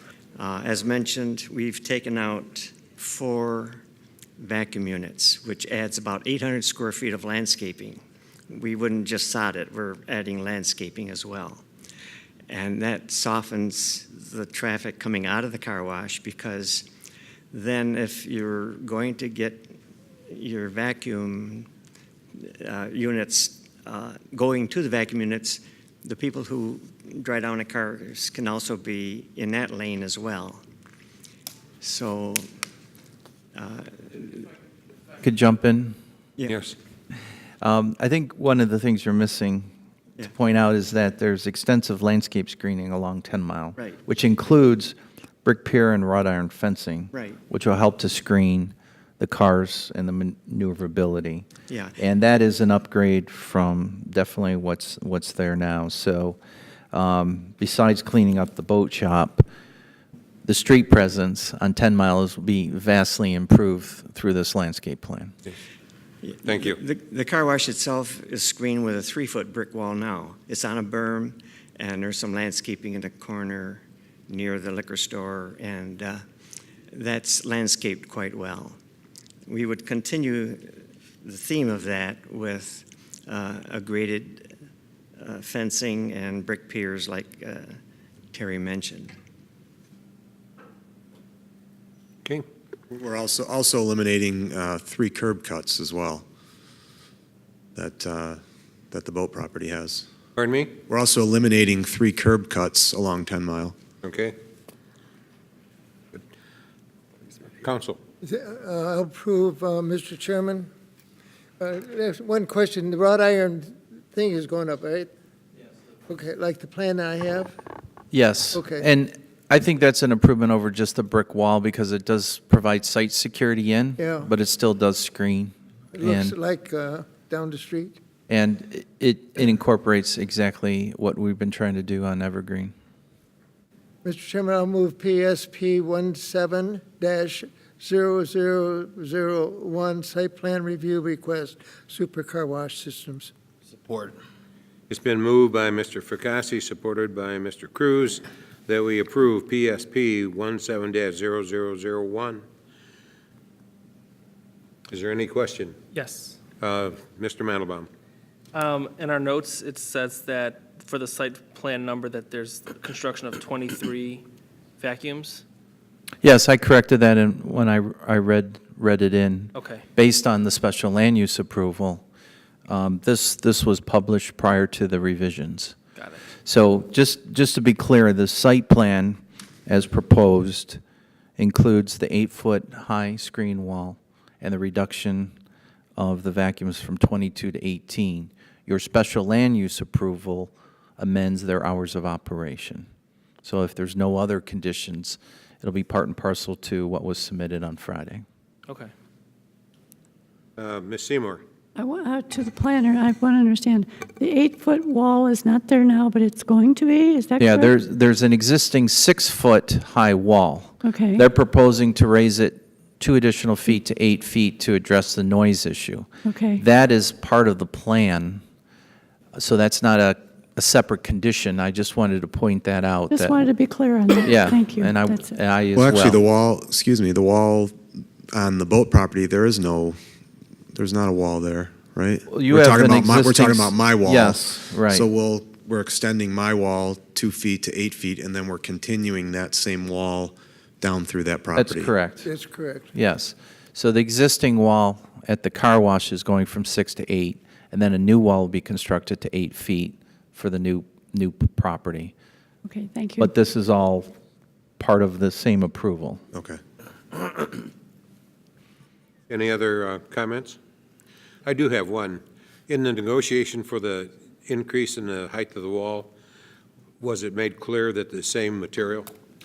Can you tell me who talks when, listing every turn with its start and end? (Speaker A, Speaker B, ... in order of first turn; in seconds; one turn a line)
Speaker A: 0.3-3.8
Speaker A: 4.4-11.6
Speaker A: 12.5-16.9
Speaker A: 17.5-19.7
Speaker A: 20.3-21.7
Speaker A: 22.4-30.6
Speaker A: 31.8-32.4
Speaker A: 33.5-34.5
Speaker B: 35.2-36.0
Speaker C: 36.5-36.7
Speaker B: 37.6-39.7
Speaker B: 40.2-51.5
Speaker A: 47.1-47.4
Speaker A: 51.7-52.0
Speaker B: 52.0-56.4
Speaker B: 56.9-59.5
Speaker B: 60.4-65.3
Speaker A: 66.2-76.2
Speaker C: 66.4-66.8
Speaker A: 76.9-78.8
Speaker A: 79.5-84.5
Speaker A: 85.2-87.8
Speaker A: 88.3-89.1
Speaker D: 92.9-96.2
Speaker D: 97.7-98.4
Speaker D: 98.9-100.0
Speaker C: 100.3-100.8
Speaker D: 100.8-103.7
Speaker C: 104.0-104.3
Speaker C: 107.6-108.0
Speaker E: 108.2-110.7
Speaker E: 111.6-115.1
Speaker E: 116.1-117.5
Speaker B: 118.1-126.3
Speaker E: 118.5-118.8
Speaker E: 124.0-124.3
Speaker E: 125.9-128.0
Speaker B: 128.3-132.7
Speaker E: 134.0-143.3
Speaker C: 143.8-144.1
Speaker C: 144.9-152.4
Speaker C: 154.9-155.8
Speaker F: 155.9-156.4
Speaker C: 156.6-157.9
Speaker F: 158.5-164.2
Speaker F: 164.8-165.4
Speaker B: 166.2-172.0
Speaker F: 169.5-169.8
Speaker B: 172.7-175.8
Speaker F: 175.9-176.2
Speaker B: 176.4-180.8
Speaker B: 181.4-185.3
Speaker B: 186.0-192.9
Speaker B: 193.4-198.2
Speaker C: 200.6-201.4
Speaker G: 201.8-207.7
Speaker B: 207.4-218.4
Speaker G: 210.8-211.2
Speaker G: 216.2-216.6
Speaker B: 219.3-223.5
Speaker G: 223.1-225.4
Speaker B: 224.2-226.2
Speaker D: 225.7-227.8
Speaker D: 228.3-230.0
Speaker D: 230.7-241.9
Speaker B: 232.3-235.1
Speaker B: 241.5-242.3
Speaker E: 242.2-242.9
Speaker B: 242.9-252.1
Speaker G: 252.6-253.3
Speaker B: 253.2-254.1
Speaker B: 254.8-256.2
Speaker D: 256.3-256.6
Speaker C: 259.3-260.6
Speaker C: 261.4-266.1
Speaker C: 267.0-269.1